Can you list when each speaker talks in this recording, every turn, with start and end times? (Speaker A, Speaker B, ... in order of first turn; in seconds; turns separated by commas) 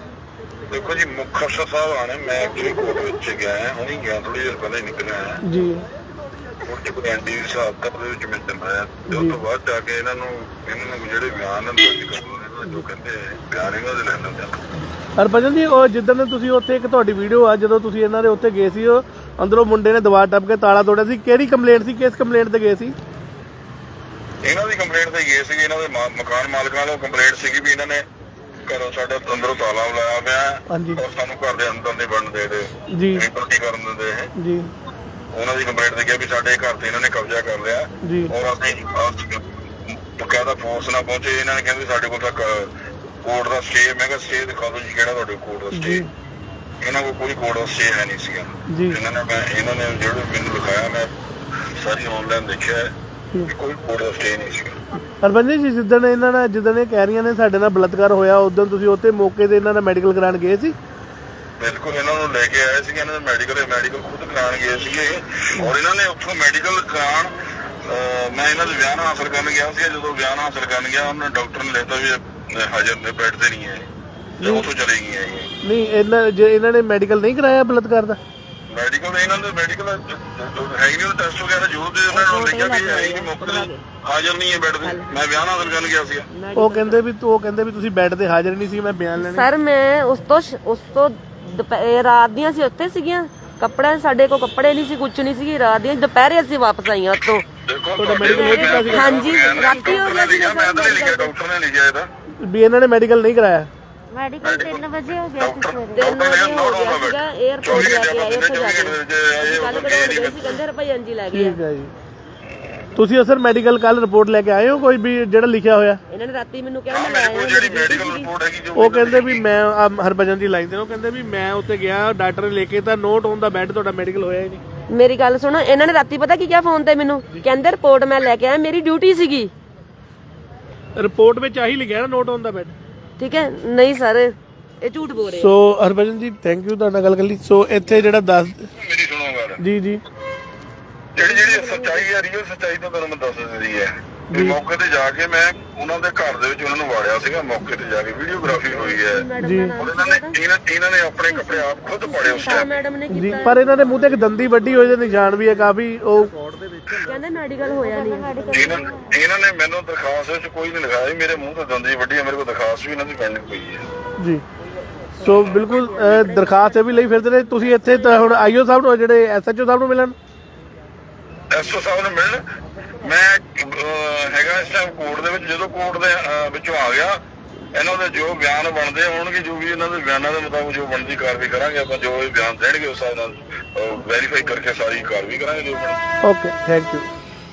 Speaker A: 0.7-5.4, Speaker B: 5.4-5.9, Speaker A: 6.6-14.6, Speaker B: 9.1-9.4, Speaker B: 15.2-22.9, Speaker A: 24.4-28.0, Speaker A: 28.6-34.3, Speaker B: 30.7-31.0, Speaker B: 32.9-33.2, Speaker B: 34.4-34.7, Speaker A: 35.3-42.7, Speaker B: 38.0-38.3, Speaker A: 43.2-46.0, Speaker B: 45.7-46.1, Speaker A: 46.8-51.1, Speaker B: 48.7-49.0, Speaker A: 51.6-52.9, Speaker A: 53.5-54.8, Speaker B: 55.2-60.7, Speaker A: 61.6-67.3, Speaker A: 67.8-73.9, Speaker A: 74.4-75.5, Speaker B: 74.4-74.7, Speaker B: 75.6-78.2, Speaker A: 78.7-86.2, Speaker C: 82.1-83.8, Speaker C: 84.8-85.3, Speaker C: 86.3-87.0, Speaker B: 86.5-89.5, Speaker C: 89.2-97.4, Speaker A: 97.7-102.1, Speaker B: 98.0-99.9, Speaker C: 98.2-101.3, Speaker B: 102.4-103.7, Speaker D: 104.1-106.1, Speaker A: 104.4-110.6, Speaker C: 106.0-111.6, Speaker B: 111.3-111.9, Speaker A: 112.5-112.8, Speaker B: 113.0-116.0, Speaker C: 116.1-118.3, Speaker A: 116.9-119.4, Speaker B: 118.8-124.6, Speaker C: 124.9-129.5, Speaker B: 130.9-132.7, Speaker C: 133.2-135.5, Speaker B: 135.3-138.7, Speaker A: 138.7-139.6, Speaker B: 139.6-140.0, Speaker A: 141.1-149.2, Speaker C: 141.2-142.1, Speaker B: 144.3-144.6, Speaker C: 148.8-150.3, Speaker B: 149.4-149.7, Speaker A: 149.8-152.7, Speaker C: 151.3-153.8, Speaker B: 153.1-156.4, Speaker C: 156.9-158.8, Speaker D: 157.7-159.1, Speaker A: 158.5-163.8, Speaker B: 164.2-164.4, Speaker C: 165.2-166.7, Speaker B: 165.2-170.2, Speaker C: 167.7-168.2, Speaker A: 171.5-172.4, Speaker A: 173.0-177.2, Speaker A: 177.7-186.0, Speaker B: 186.2-187.1